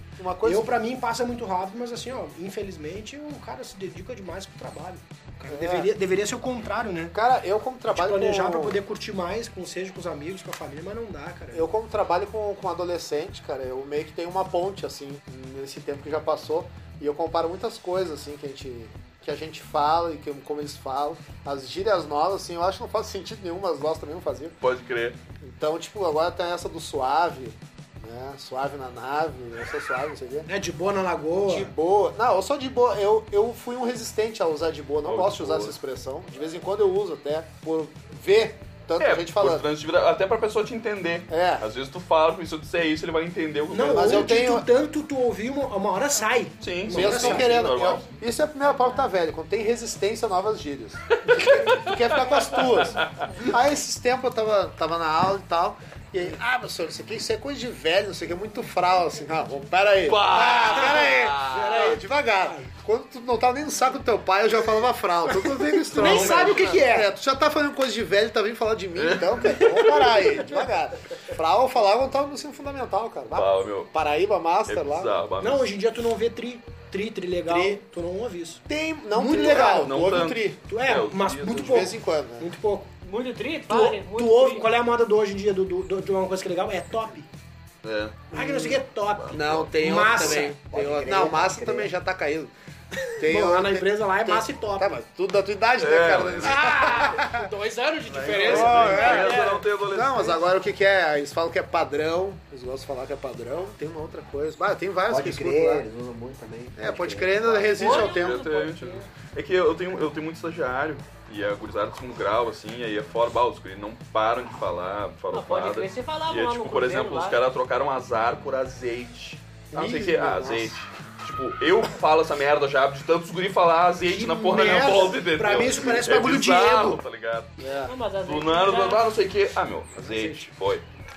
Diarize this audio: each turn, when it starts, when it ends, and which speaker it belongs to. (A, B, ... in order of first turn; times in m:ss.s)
0:00.2-0:00.8 A
0:00.4-0:07.2 B
0:05.5-0:05.9 A
0:07.1-0:08.8 A
0:07.9-0:11.7 B
0:11.5-0:24.6 A
0:24.6-0:25.2 C
0:25.4-0:30.5 A
0:30.5-0:31.7 B
0:31.4-0:39.7 A
0:35.0-0:35.7 C
0:39.0-0:44.2 C
0:41.3-0:41.7 A
0:43.7-0:47.5 B
0:43.8-0:44.7 A
0:46.6-0:48.0 C
0:46.9-1:15.2 A
0:51.3-0:53.4 C
1:00.0-1:01.9 C
1:01.5-1:02.7 B
1:05.9-1:07.1 B
1:05.9-1:06.8 C
1:09.0-1:10.3 C
1:13.3-1:13.9 C
1:14.7-1:15.7 C
1:15.4-1:18.6 B
1:17.4-1:17.8 A
1:18.7-1:20.6 A
1:19.1-1:19.9 B
1:19.4-1:21.9 C
1:20.7-1:22.9 B
1:21.6-1:22.5 A
1:23.0-1:24.7 D
1:23.7-1:27.3 B
1:27.8-1:28.3 C
1:28.3-1:32.5 A
1:28.3-1:30.6 B
1:29.0-1:29.7 C
1:30.5-1:31.9 E
1:33.2-1:37.5 A
1:33.2-1:35.0 B
1:35.8-1:36.8 C
1:36.4-1:39.4 B
1:38.1-1:40.4 C
1:38.1-1:38.5 E
1:38.4-1:45.8 A
1:38.7-1:39.6 D
1:45.1-1:47.9 E
1:46.8-1:48.4 A
1:47.8-1:49.1 D
1:47.8-2:07.5 C
1:55.3-1:57.4 D
1:59.7-2:00.8 A
2:04.1-2:07.0 B
2:07.6-2:07.9 A
2:07.9-2:09.0 D
2:08.2-2:10.8 C
2:10.0-2:10.4 B